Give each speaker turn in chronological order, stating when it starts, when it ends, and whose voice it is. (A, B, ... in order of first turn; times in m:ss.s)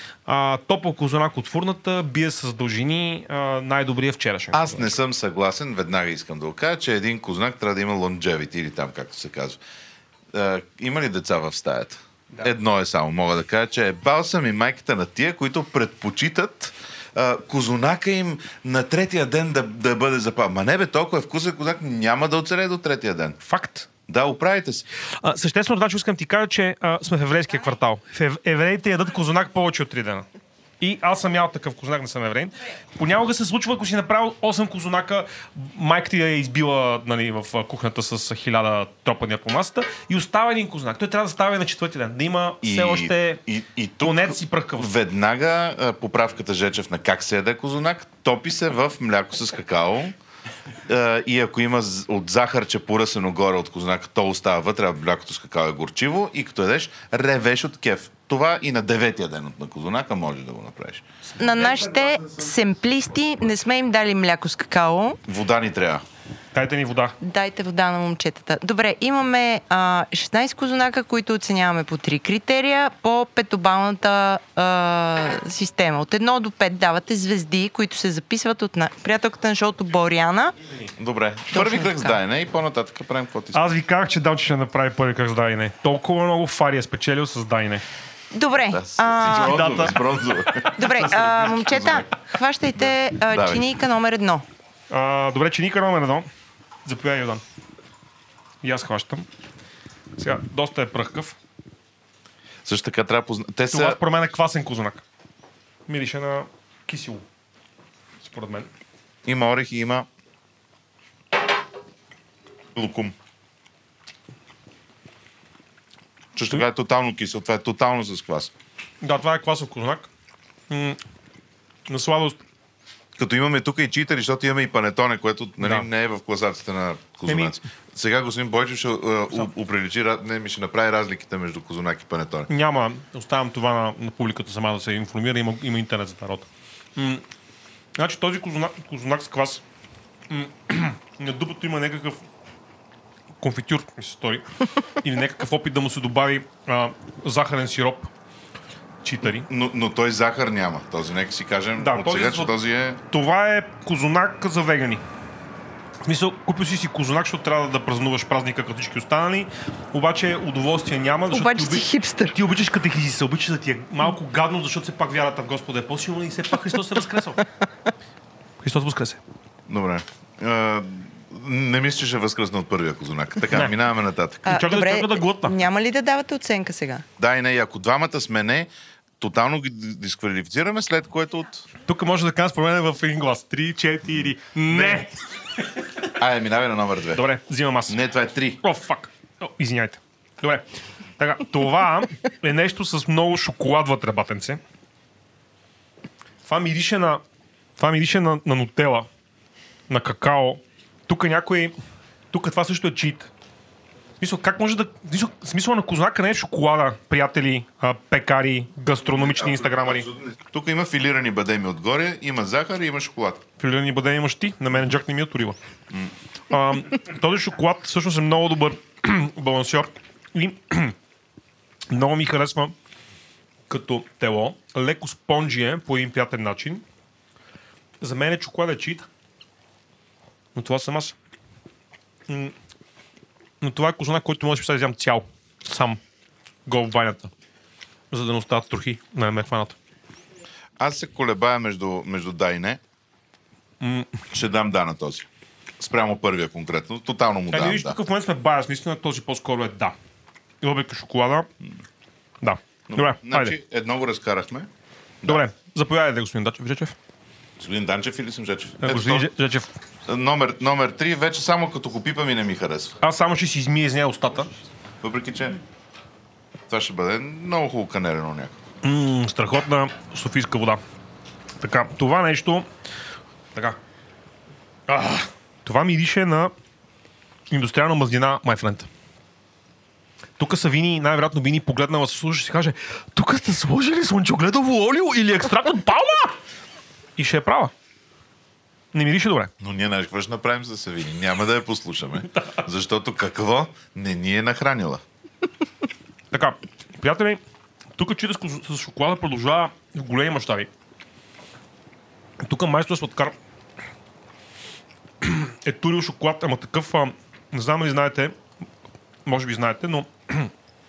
0:00.2-0:05.0 A
0:04.5-0:09.6 B
0:10.3-0:23.4 B
0:23.4-0:23.9 A
0:24.1-0:24.8 B
0:25.2-0:30.2 A
0:30.8-0:43.4 A
0:42.6-0:50.1 B
0:44.0-0:44.9 A
0:50.9-1:01.0 B
1:01.4-1:01.8 A
1:01.4-1:05.2 C
1:05.3-1:06.0 B
1:06.5-1:07.1 A
1:07.2-1:20.5 C
1:21.0-1:23.6 B
1:21.5-1:22.2 C
1:23.5-1:27.8 A
1:28.3-1:29.9 C
1:28.7-1:32.0 B
1:29.3-1:30.0 A
1:30.7-1:34.4 C
1:33.3-1:33.6 B
1:34.9-1:36.3 A
1:36.8-1:37.4 A
1:38.6-1:39.2 A
1:40.2-1:41.4 A
1:42.6-1:44.0 B
1:43.7-1:45.0 A
1:45.9-1:47.2 A
1:48.2-1:48.7 A
1:49.2-1:50.1 B
1:52.7-1:53.1 B
1:56.3-1:58.5 B
1:59.0-2:00.1 A
2:00.7-2:01.0 A
2:01.9-2:02.4 A
2:03.2-2:12.5 B
2:05.6-2:05.9 A
2:07.3-2:07.6 A
2:12.5-2:17.2 A
2:18.0-2:19.6 A
2:20.3-2:22.2 A
2:23.4-2:24.4 A
2:25.0-2:28.1 A
2:29.0-2:29.5 A
2:29.2-2:33.0 B
2:31.8-2:32.5 A
2:33.1-2:35.0 A
2:36.0-2:47.4 A
2:41.3-2:42.4 C
2:48.6-2:49.2 A
2:49.7-2:54.6 B
2:54.4-2:57.0 C
2:54.5-2:55.5 A
2:57.2-3:01.6 B
3:01.9-3:05.1 A
3:04.7-3:05.0 B
3:06.1-3:07.3 B
3:07.1-3:08.0 A
3:07.9-3:08.6 B
3:08.6-3:10.6 A
3:11.2-3:14.6 A
3:16.4-3:17.2 A
3:17.8-3:19.1 A
3:19.9-3:21.7 A
3:22.3-3:23.3 A
3:24.2-3:30.1 A
3:29.0-3:33.4 B
3:33.6-3:35.6 A
3:36.5-3:40.9 A
3:41.9-3:42.7 A
3:43.7-3:46.8 A
3:48.0-3:49.1 A
3:50.5-3:51.1 A
3:52.3-3:52.5 A
3:53.6-3:56.0 A
3:56.6-3:57.3 A
3:58.1-3:59.8 A
4:00.8-4:02.8 B
4:03.8-4:04.1 A
4:04.3-4:05.3 B
4:05.8-4:08.0 B
4:07.5-4:09.9 A
4:10.6-4:11.5 A
4:12.4-4:13.6 A
4:12.9-4:14.7 B
4:15.2-4:16.9 A
4:17.6-4:19.3 B
4:18.8-4:19.7 A
4:20.0-4:23.0 B
4:23.0-4:24.5 A
4:25.0-4:25.6 B
4:26.7-4:28.6 B
4:28.8-4:30.8 A
4:31.6-4:32.6 A
4:34.9-4:36.5 A
4:37.5-4:38.9 A
4:40.4-4:46.3 A
4:47.2-4:47.7 A
4:48.9-4:49.5 A
4:49.6-4:55.0 B
4:56.3-4:57.4 A
4:58.0-5:00.7 A
5:02.4-5:03.3 A
5:05.2-5:08.4 A
5:09.2-5:10.5 A